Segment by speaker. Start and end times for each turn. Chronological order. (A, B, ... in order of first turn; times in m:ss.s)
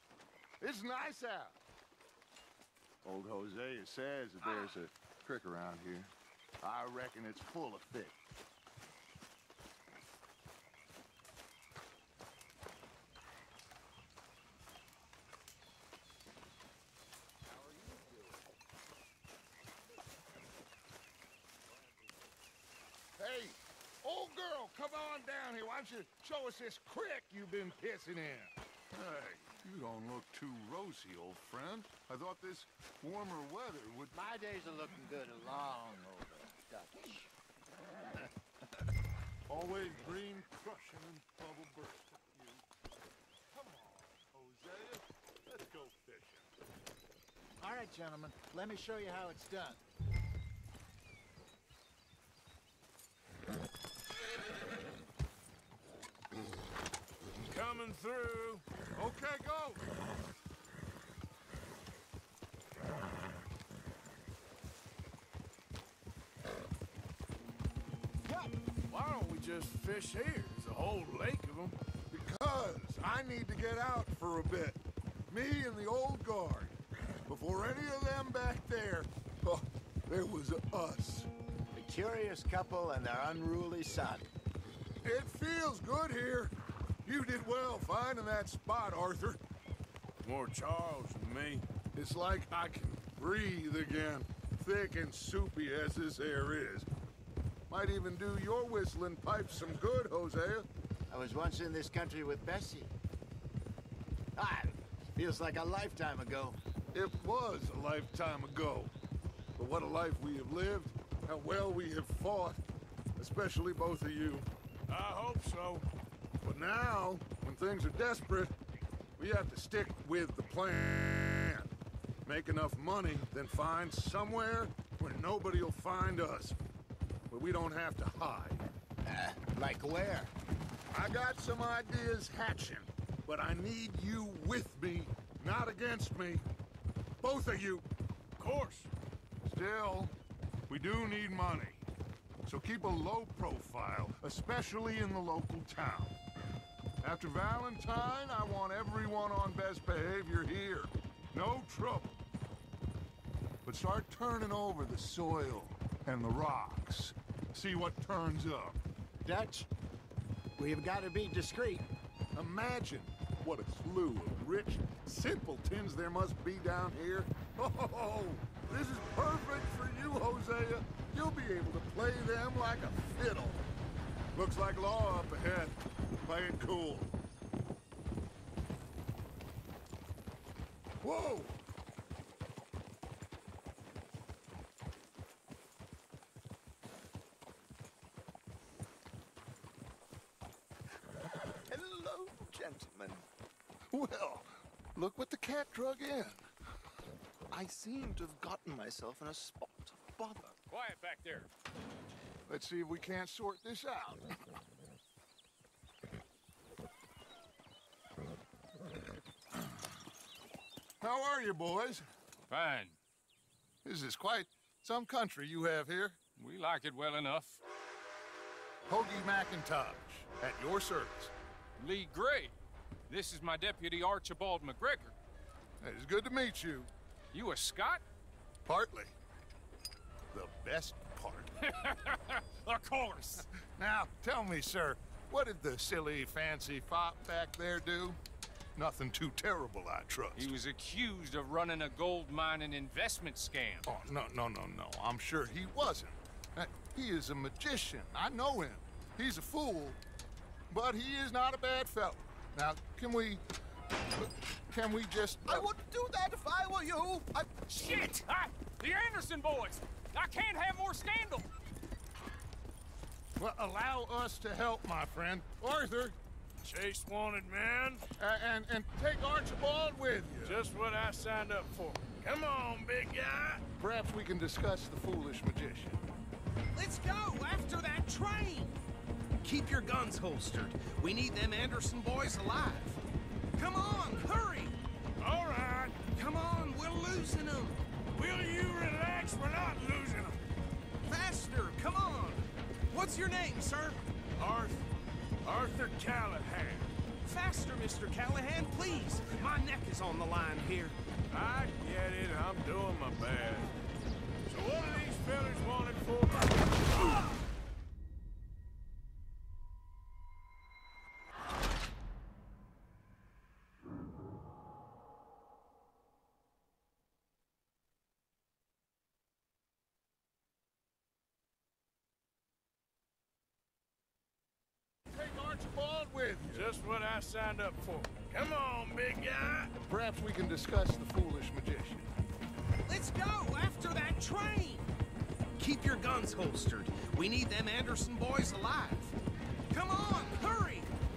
0:00.6-0:01.6 A
0:03.0-0:06.1 A
0:06.6-0:08.2 A
0:23.2-0:34.1 A
0:34.1-0:37.3 B
0:39.5-0:42.6 A
0:43.5-0:46.4 A
0:47.6-0:49.8 B
0:57.4-0:58.6 C
0:59.0-0:59.8 A
1:08.9-1:11.8 C
1:12.1-1:21.3 A
1:21.7-1:24.3 B
1:25.0-1:26.5 A
1:27.0-1:29.4 A
1:30.2-1:31.7 C
1:32.0-1:36.9 A
1:37.7-1:40.7 A
1:41.1-1:42.9 B
1:44.4-1:46.6 B
1:46.9-1:48.9 A
1:49.6-1:52.6 A
1:53.2-1:54.5 A
1:54.9-1:55.9 C
1:56.4-1:58.5 A
1:59.2-2:01.7 A
2:02.2-2:06.6 A
2:07.3-2:08.7 A
2:09.1-2:10.3 B
2:10.9-2:16.4 A
2:17.2-2:17.9 A
2:18.4-2:18.9 C
2:19.4-2:20.1 A
2:20.7-2:21.8 A
2:22.5-2:26.2 A
2:27.0-2:32.2 A
2:33.6-2:38.8 A
2:39.2-2:39.7 B
2:40.6-2:41.9 B
2:42.4-2:53.6 A
2:54.3-2:57.2 A
3:01.0-3:01.6 A
3:11.7-3:13.2 D
3:13.9-3:16.4 A
3:17.5-3:20.5 D
3:20.7-3:21.5 E
3:22.5-3:24.2 A
3:31.0-3:32.1 A
3:32.5-3:33.0 E
3:33.8-3:36.2 A
3:36.4-3:37.6 E
3:38.9-3:41.3 A
3:41.8-3:42.6 E
3:43.1-3:45.1 E
3:45.8-3:46.9 A
3:47.3-3:48.0 E
3:48.7-3:49.1 A
3:50.3-3:51.5 A
3:51.7-3:53.4 E
3:53.8-3:58.2 A
3:58.8-4:00.5 A
4:00.4-4:03.9 E
4:03.9-4:10.0 A
4:10.7-4:13.4 A
4:14.7-4:15.7 A
4:15.5-4:17.3 D
4:17.7-4:21.5 E
4:23.4-4:26.2 A
4:26.6-4:28.1 C
4:28.2-4:30.6 A
4:30.4-4:33.6 C
4:33.8-4:36.0 A
4:36.7-4:38.8 F
4:39.4-4:43.0 F
4:43.6-4:44.8 F
4:45.2-4:46.1 C
4:46.0-4:47.9 F
4:48.1-4:50.4 C
4:51.1-4:54.0 F
4:54.4-4:54.9 C
4:55.4-4:56.9 C
4:57.2-5:01.0 F
5:01.3-5:03.8 C
5:04.4-5:07.2 C
5:25.1-5:26.7 A
5:26.5-5:29.7 C
5:29.9-5:32.1 A
5:32.9-5:34.9 F
5:35.6-5:39.1 F
5:39.7-5:40.9 F